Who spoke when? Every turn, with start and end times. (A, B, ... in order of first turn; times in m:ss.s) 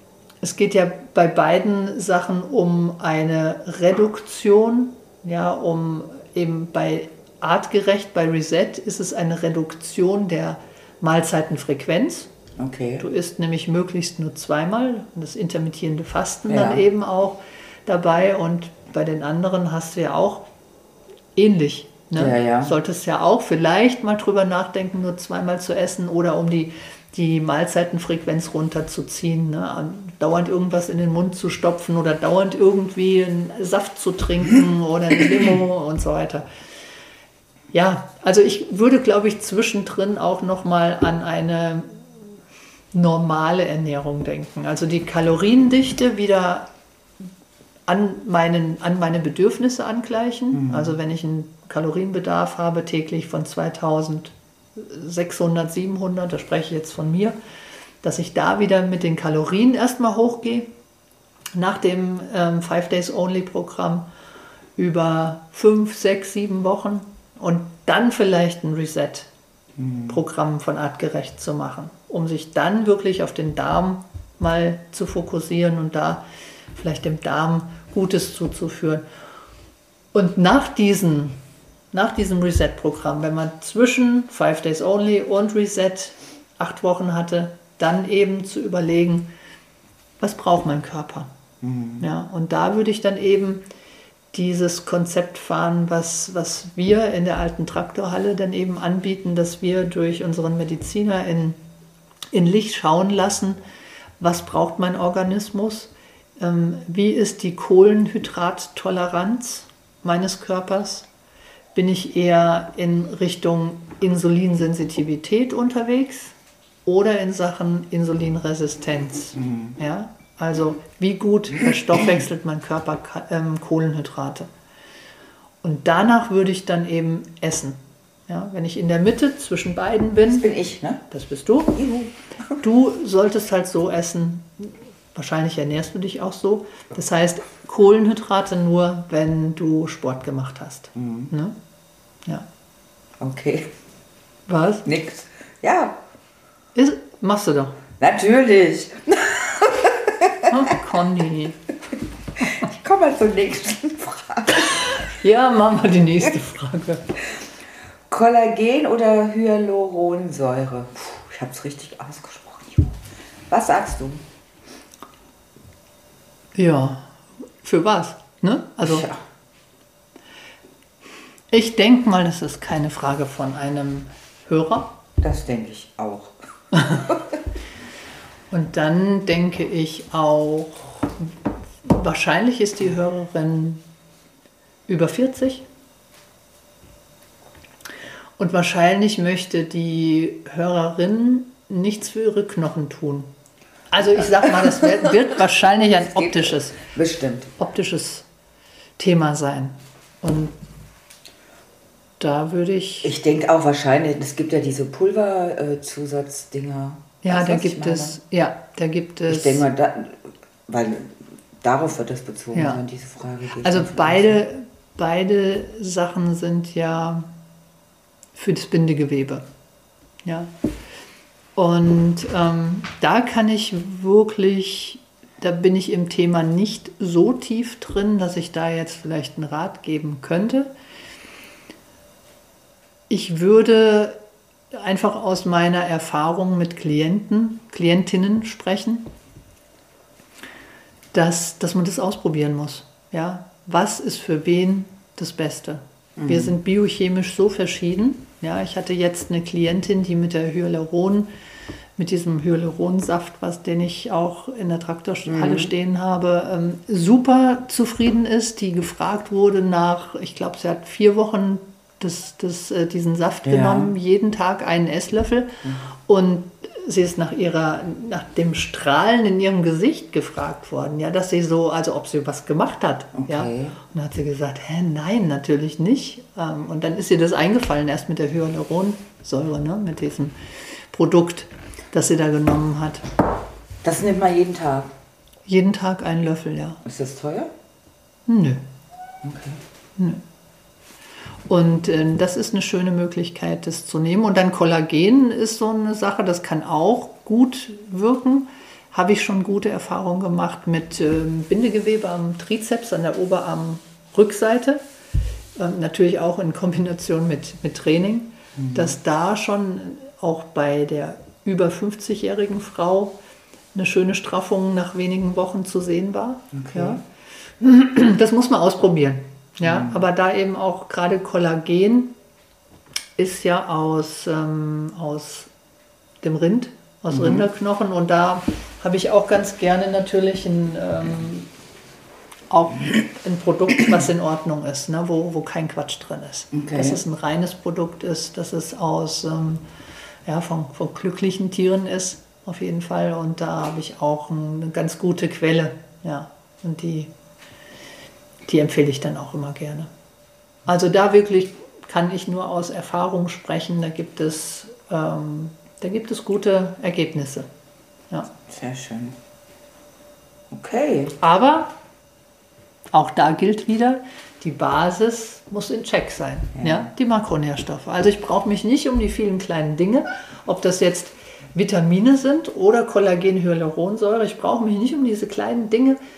0:00.4-0:12.3 A
0:12.6-0:13.0 B
0:13.0-0:20.4 A
0:16.5-0:16.8 B
0:21.4-0:36.4 A
0:22.2-0:22.7 B
0:37.7-0:42.2 A
0:42.9-0:46.7 A
0:47.9-0:57.4 A
0:50.5-0:50.9 B
0:58.0-1:00.7 A
1:01.5-1:04.0 A
1:04.8-1:09.3 A
1:09.8-1:10.2 B
1:10.1-1:16.2 A
1:16.7-1:19.0 A
1:20.1-1:21.4 A
1:21.9-1:29.3 A
1:30.2-1:31.3 A
1:31.6-1:32.0 B
1:32.0-1:33.6 A
1:34.3-1:41.6 A
1:42.3-1:43.6 A
1:44.2-1:51.1 A
1:51.7-1:56.3 A
1:56.8-2:04.5 A
1:59.4-1:59.7 B
2:05.6-2:10.5 A
2:10.3-2:11.0 B
2:11.1-2:12.0 A
2:11.8-2:12.1 B
2:12.6-2:21.5 A
2:20.9-2:21.3 B
2:23.2-2:23.7 B
2:24.5-2:24.8 A
2:24.8-2:26.0 B
2:26.7-2:27.8 A
2:28.0-2:30.5 B
2:30.5-2:31.6 A
2:32.4-2:35.0 B
2:35.1-2:37.2 A
2:38.1-2:43.0 B
2:43.5-2:44.2 B
2:46.5-2:49.1 A
2:48.8-2:49.2 B
2:51.5-2:54.9 A
2:55.2-2:56.3 B
2:56.7-2:57.0 A
2:56.9-2:57.4 B
2:58.5-3:01.3 A
3:01.8-3:03.8 A
3:04.9-3:05.6 A
3:08.4-3:13.3 A
3:13.9-3:16.8 A
3:16.1-3:17.5 B
3:17.6-3:18.2 A
3:19.0-3:20.5 A
3:22.2-3:23.1 A
3:23.0-3:28.2 B
3:27.2-3:29.6 A
3:29.3-3:34.4 B
3:32.5-3:32.8 A
3:33.6-3:37.3 A
3:38.3-3:39.4 A
3:40.2-3:40.5 A
3:41.6-3:50.7 A
3:53.1-3:54.2 A
3:54.7-3:59.1 A
4:01.1-4:11.3 A
4:06.2-4:06.5 B
4:12.0-4:40.4 A
4:15.2-4:15.7 B
4:23.4-4:23.9 B
4:33.1-4:33.8 B
4:40.9-4:43.0 A
4:43.8-4:44.9 B
4:45.5-4:46.8 A
4:46.8-4:47.5 B
4:48.3-4:48.6 A
4:49.2-4:49.6 B
4:50.0-4:50.2 A
4:51.5-5:04.8 A
5:05.6-5:13.2 A
5:08.6-5:08.9 B
5:13.7-5:17.0 A
5:16.5-5:17.0 B
5:17.6-5:22.1 A
5:19.6-5:20.0 B
5:23.2-5:25.5 A
5:26.2-5:31.5 A
5:27.1-5:27.5 B
5:32.5-5:39.6 A
5:36.5-5:37.0 B
5:40.2-5:47.1 A
5:48.5-5:49.9 A
5:50.6-5:57.5 A
5:58.5-5:59.2 B
6:00.5-6:01.2 B
6:01.2-6:01.7 A
6:02.9-6:16.0 A
6:06.6-6:06.9 B